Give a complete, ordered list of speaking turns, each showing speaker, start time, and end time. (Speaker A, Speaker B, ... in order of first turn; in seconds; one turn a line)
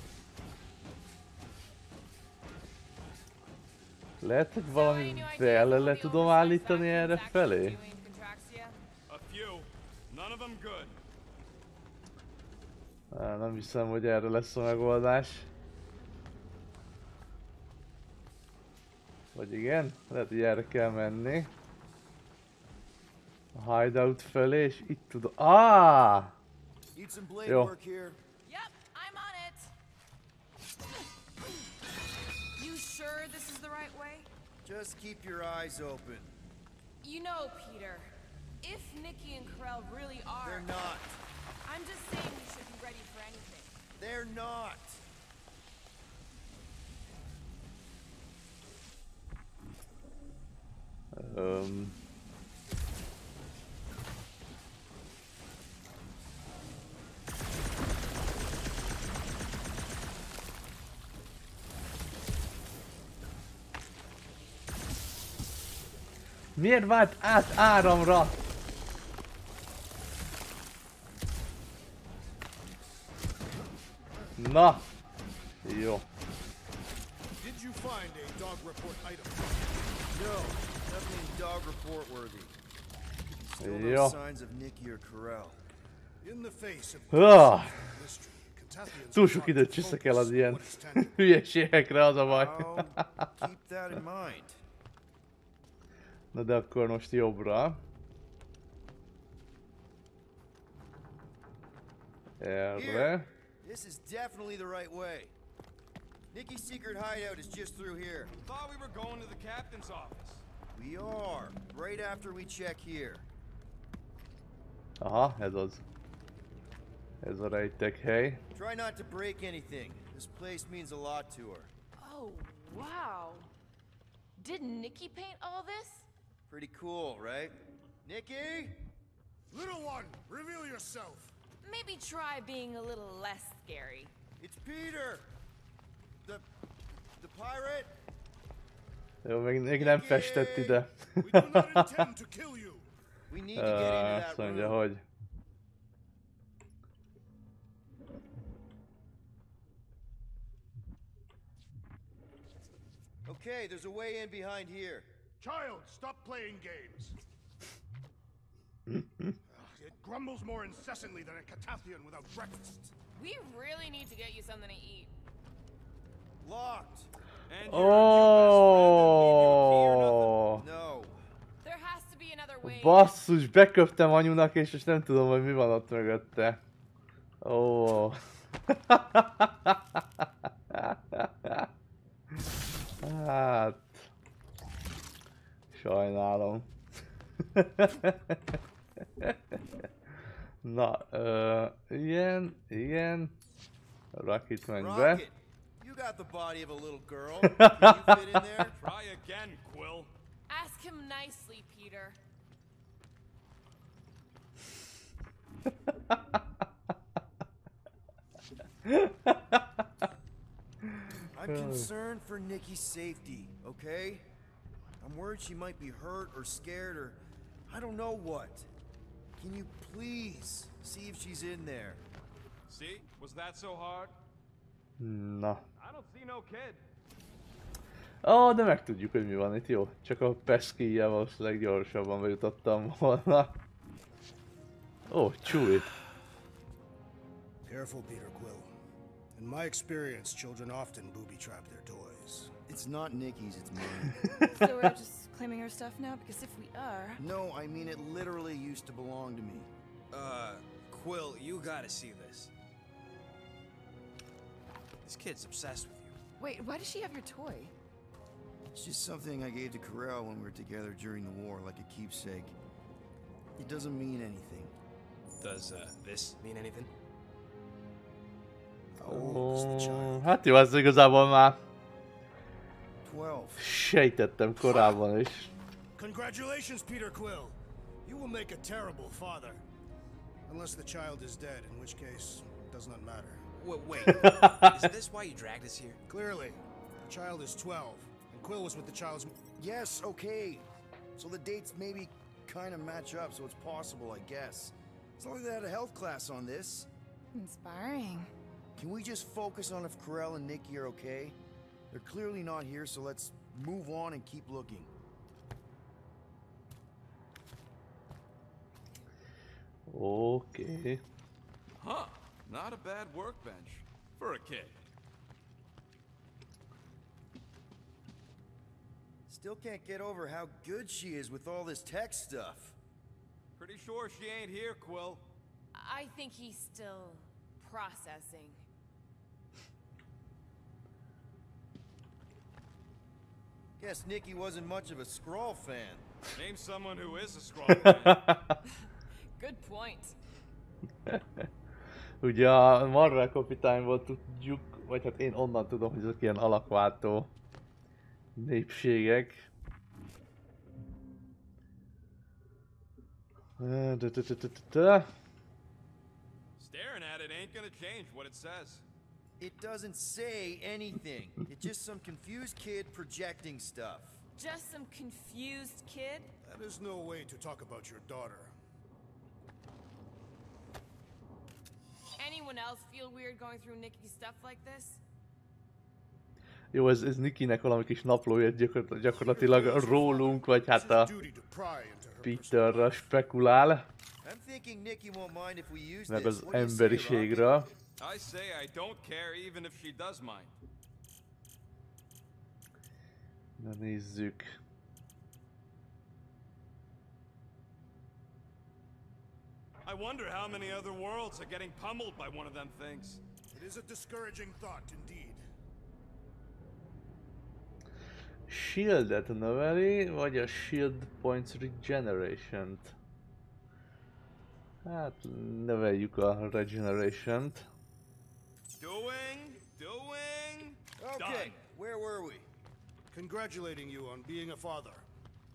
Speaker A: 4.2-7.8
Speaker B: 4.7-8.8
Speaker C: 9.1-10.9
Speaker A: 13.1-15.5
Speaker A: 19.3-21.5
Speaker A: 23.5-26.3
Speaker D: 26.9-28.2
Speaker A: 27.4-27.7
Speaker B: 28.4-29.7
Speaker B: 32.6-34.3
Speaker D: 34.6-36.3
Speaker B: 37.0-40.7
Speaker D: 40.4-41.2
Speaker B: 41.6-43.8
Speaker D: 44.0-45.0
Speaker A: 51.1-52.0
Speaker A: 66.5-68.3
Speaker A: 74.4-74.8
Speaker A: 75.6-76.0
Speaker E: 77.4-79.6
Speaker D: 80.1-82.5
Speaker D: 83.4-85.6
Speaker A: 83.6-84.2
Speaker E: 86.2-91.2
Speaker A: 87.1-87.8
Speaker A: 89.1-93.3
Speaker D: 92.2-94.6
Speaker A: 96.3-97.8
Speaker A: 102.4-103.3
Speaker D: 102.7-105.3
Speaker D: 106.3-108.3
Speaker C: 108.4-110.4
Speaker D: 110.7-113.2
Speaker A: 115.0-115.8
Speaker A: 117.2-118.4
Speaker D: 118.5-121.7
Speaker B: 122.0-123.5
Speaker B: 124.4-126.1
Speaker D: 126.5-127.5
Speaker D: 128.0-128.8
Speaker E: 129.5-131.3
Speaker B: 131.6-134.1
Speaker D: 134.4-135.3
Speaker D: 137.2-137.9
Speaker A: 139.2-141.9
Speaker D: 139.8-140.8
Speaker E: 141.2-142.9
Speaker D: 143.3-144.8
Speaker A: 143.5-145.0
Speaker D: 153.2-155.1
Speaker E: 155.4-157.2
Speaker A: 158.9-159.4
Speaker E: 159.5-162.9
Speaker B: 163.1-165.1
Speaker D: 166.4-167.1
Speaker C: 167.5-170.4
Speaker A: 167.6-170.6
Speaker D: 170.5-171.2
Speaker B: 171.6-173.1
Speaker A: 172.6-176.6
Speaker A: 177.4-181.7
Speaker A: 183.0-184.1
Speaker A: 185.7-186.7
Speaker A: 187.5-188.6
Speaker A: 189.2-189.6
Speaker A: 190.6-193.3
Speaker A: 194.1-195.2
Speaker D: 194.8-198.7
Speaker A: 197.4-198.4
Speaker C: 198.8-200.1
Speaker B: 200.5-202.2
Speaker A: 208.8-209.8
Speaker A: 210.8-211.9
Speaker D: 211.3-214.2
Speaker D: 215.0-218.7
Speaker D: 219.4-222.0
Speaker C: 222.7-224.2
Speaker A: 225.0-225.6
Speaker C: 225.8-226.8
Speaker A: 228.2-233.5
Speaker A: 235.1-235.9
Speaker E: 237.6-238.7
Speaker E: 239.3-242.5
Speaker D: 242.7-244.2
Speaker B: 244.3-247.2
Speaker D: 247.2-249.7
Speaker F: 250.1-252.5
Speaker F: 255.0-256.1
Speaker B: 256.4-257.7
Speaker D: 258.7-262.5
Speaker D: 263.6-264.7
Speaker F: 265.4-266.9
Speaker F: 269.0-270.2
Speaker A: 269.1-271.6
Speaker D: 273.0-273.6
Speaker A: 273.6-275.5
Speaker E: 275.9-279.6
Speaker E: 280.5-283.4
Speaker F: 283.5-286.0
Speaker A: 284.0-284.9
Speaker E: 286.1-289.4
Speaker D: 289.6-296.9
Speaker B: 297.3-298.3
Speaker D: 298.8-301.4
Speaker D: 301.9-304.9
Speaker A: 309.9-311.0
Speaker C: 311.8-314.7
Speaker D: 319.3-322.8
Speaker C: 323.6-325.3
Speaker B: 325.7-328.6
Speaker D: 333.8-336.1
Speaker C: 336.3-338.2
Speaker A: 337.6-338.5
Speaker B: 339.4-340.1
Speaker A: 341.1-341.5
Speaker A: 342.2-347.3
Speaker A: 348.4-349.5
Speaker A: 353.6-355.1
Speaker C: 356.6-358.8
Speaker D: 359.4-364.2
Speaker B: 364.4-366.3
Speaker E: 366.4-368.5
Speaker B: 372.2-375.0
Speaker A: 376.7-381.1
Speaker E: 379.2-383.0
Speaker A: 382.2-383.9
Speaker D: 384.2-387.6
Speaker A: 386.1-387.7
Speaker C: 388.0-390.5
Speaker A: 393.6-394.6
Speaker C: 399.9-403.2
Speaker E: 403.5-405.4
Speaker A: 408.5-412.9
Speaker A: 414.8-417.7
Speaker C: 418.8-421.6
Speaker D: 421.0-422.5
Speaker E: 423.1-425.0